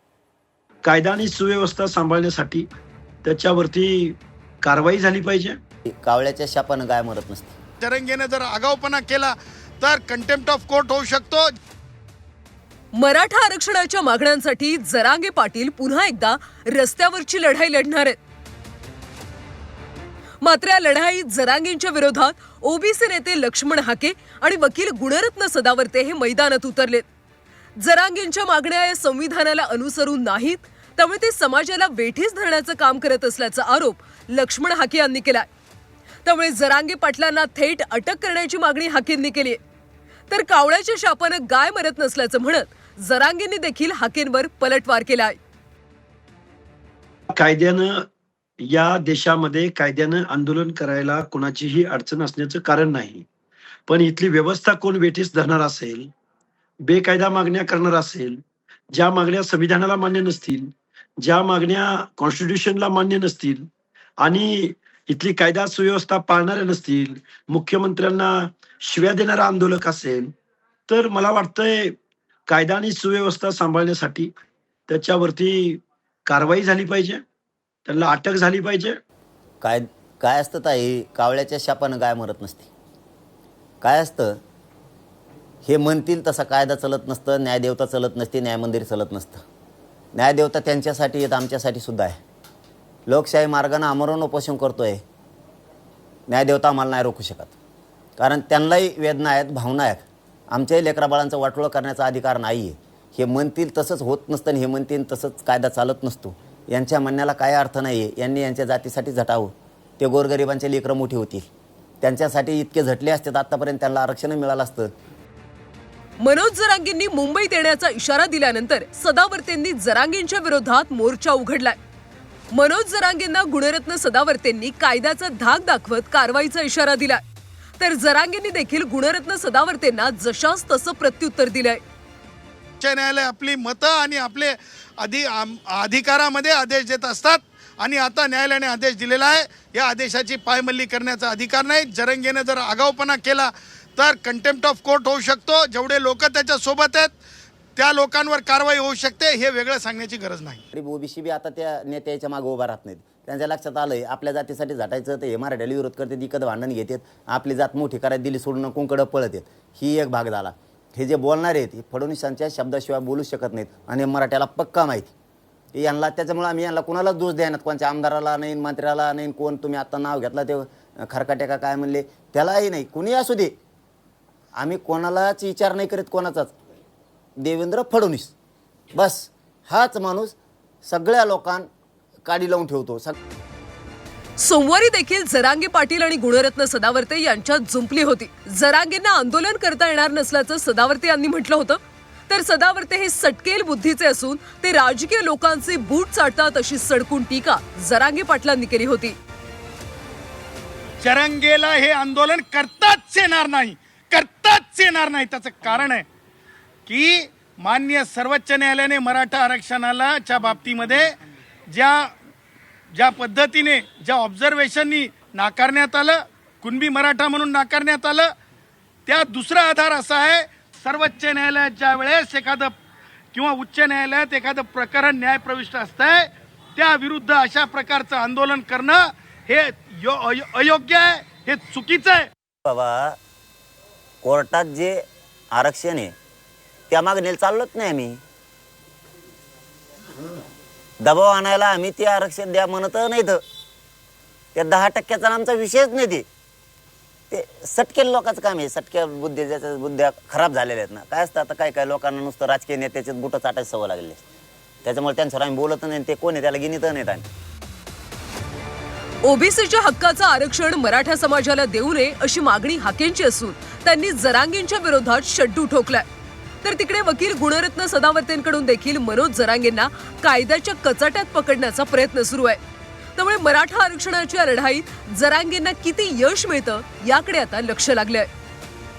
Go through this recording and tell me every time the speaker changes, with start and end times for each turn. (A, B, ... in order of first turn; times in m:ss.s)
0:00.8-0:02.7 A
0:03.2-0:05.6 A
0:05.9-0:07.6 B
0:07.8-0:11.5 C
0:12.9-0:18.2 D
0:20.4-0:27.0 D
0:27.8-0:35.5 D
0:36.2-0:39.6 D
0:40.3-0:45.4 D
0:47.3-0:48.0 A
0:48.6-0:53.2 A
0:53.9-0:56.1 A
0:56.8-0:58.4 A
0:58.9-1:03.7 A
1:04.2-1:10.3 A
1:10.9-1:12.0 A
1:12.5-1:14.3 A
1:14.9-1:17.2 A
1:17.8-1:19.0 A
1:19.6-1:22.7 B
1:23.8-1:24.4 B
1:25.6-1:29.4 B
1:30.1-1:32.2 B
1:33.0-1:35.0 B
1:36.3-1:37.5 B
1:38.2-1:51.5 B
1:52.0-1:54.9 B
1:56.2-2:01.8 D
2:02.5-2:07.2 D
2:07.8-2:11.8 D
2:12.8-2:27.2 C
2:27.8-2:30.6 C
2:30.7-2:45.1 B
2:45.7-2:53.5 B
2:54.6-2:56.6 B
2:57.4-2:58.3 B
2:58.9-3:01.7 B
3:02.2-3:03.2 B
3:04.4-3:19.2 D
3:21.0-3:26.0 C
3:26.9-3:31.1 C
3:31.7-3:32.1 C
3:32.9-3:38.3 C
3:39.0-3:42.7 C
3:43.3-3:52.3 C
3:52.6-3:53.2 B
3:54.2-3:56.1 B
3:56.9-3:58.2 B
4:01.0-4:03.4 B
4:04.5-4:06.2 B
4:07.3-4:14.2 B
4:14.8-4:17.2 B
4:19.2-4:26.0 D
4:26.6-4:32.6 D
4:33.2-4:38.3 D